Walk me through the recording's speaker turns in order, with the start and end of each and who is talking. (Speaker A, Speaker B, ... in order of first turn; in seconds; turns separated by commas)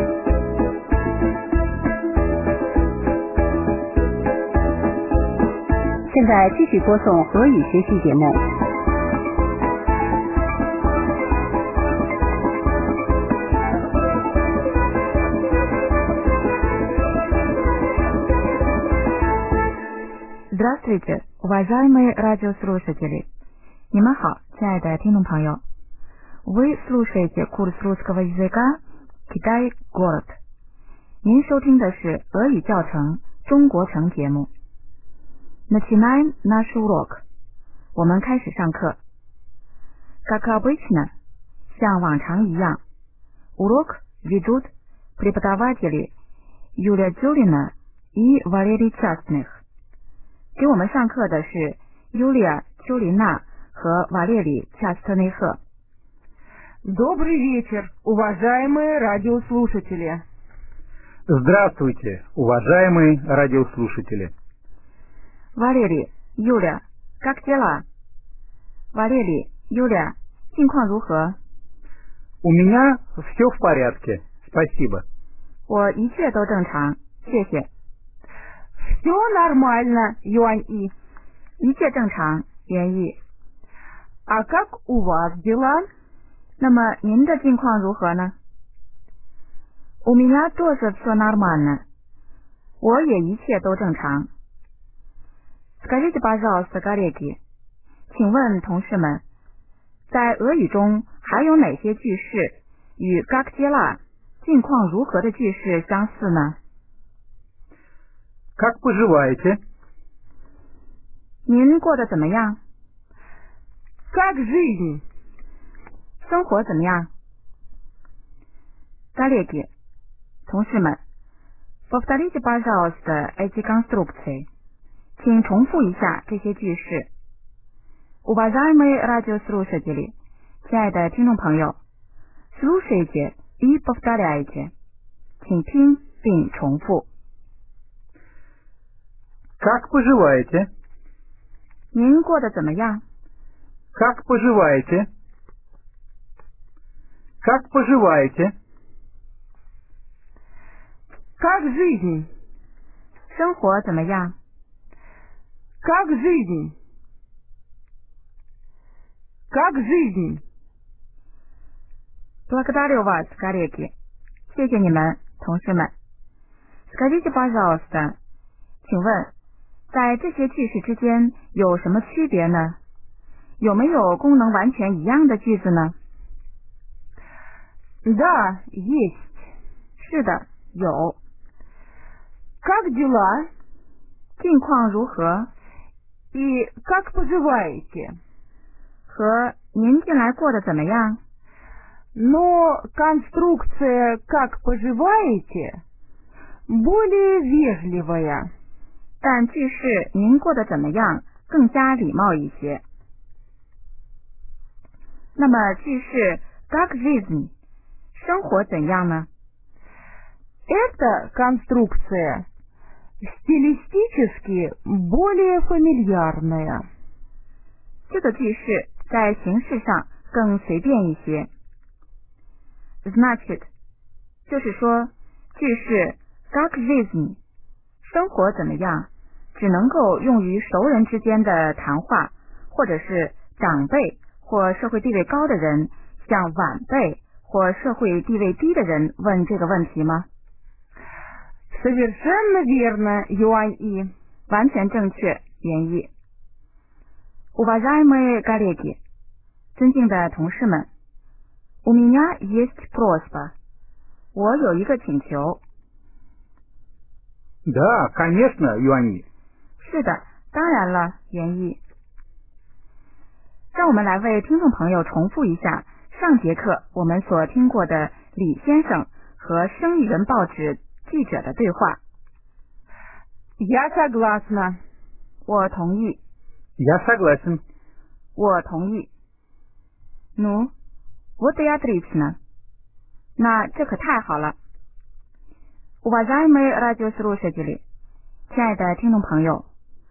Speaker A: 6.1-8.4, Speaker B: 20.5-23.2, Speaker B: 23.9-25.6, Speaker B: 26.4-30.4, Speaker B: 31.2-34.5, Speaker B: 35.7-37.2, Speaker B: 37.9-39.0, Speaker B: 40.2-41.1, Speaker B: 41.7-42.8, Speaker B: 43.6-46.1, Speaker B: 46.8-49.6, Speaker B: 50.5-55.6, Speaker C: 56.8-60.2, Speaker D: 61.3-64.3, Speaker B: 65.5-67.8, Speaker B: 68.9-71.4, Speaker D: 72.4-75.0, Speaker B: 75.7-77.7, Speaker C: 78.8-80.9, Speaker B: 81.6-83.2, Speaker C: 84.2-85.9, Speaker B: 86.6-88.3, Speaker B: 90.0-91.8, Speaker B: 92.8-94.3, Speaker B: 95.8-97.4, Speaker B: 98.1-99.2, Speaker B: 100.1-106.6, Speaker D: 108.5-109.6, Speaker B: 111.5-112.6, Speaker C: 114.1-115.0, Speaker B: 116.2-117.1, Speaker B: 119.1-119.7, Speaker B: 120.5-121.0, Speaker B: 121.9-124.5, Speaker B: 125.2-127.1, Speaker B: 128.2-131.8, Speaker B: 132.5-134.7, Speaker B: 135.4-137.1, Speaker D: 139.6-140.7, Speaker B: 141.9-143.0, Speaker D: 143.9-145.1, Speaker D: 147.4-148.5, Speaker C: 151.4-152.3, Speaker B: 153.3-154.3, Speaker C: 155.8-156.7, Speaker C: 159.5-160.4, Speaker B: 162.5-163.9, Speaker B: 164.5-165.9, Speaker B: 166.9-168.2, Speaker B: 168.8-169.3, Speaker B: 169.9-172.8, Speaker B: 173.6-175.9, Speaker C: 178.0-179.4, Speaker B: 180.0-181.2, Speaker C: 182.6-183.5, Speaker B: 184.4-185.5, Speaker C: 186.3-188.1, Speaker B: 189.1-191.2, Speaker C: 192.1-195.8, Speaker C: 196.7-198.5, Speaker B: 199.2-202.8, Speaker B: 205.3-207.5, Speaker B: 208.1-209.3, Speaker C: 210.7-212.4, Speaker C: 213.2-216.8, Speaker B: 218.1-221.5, Speaker B: 223.0-223.7, Speaker B: 224.5-227.4, Speaker B: 228.0-240.3, Speaker C: 241.7-244.1, Speaker B: 244.5-246.1, Speaker B: 247.5-249.0, Speaker B: 249.7-250.9, Speaker B: 251.8-253.5, Speaker B: 254.3-255.6, Speaker D: 257.6-259.2, Speaker B: 259.8-261.8, Speaker B: 263.7-272.0, Speaker C: 273.6-274.8, Speaker B: 275.4-276.2, Speaker D: 276.8-277.6, Speaker B: 278.4-279.1, Speaker B: 280.4-280.7, Speaker B: 281.4-282.4, Speaker B: 283.4-284.6, Speaker B: 286.0-287.8, Speaker B: 288.5-289.6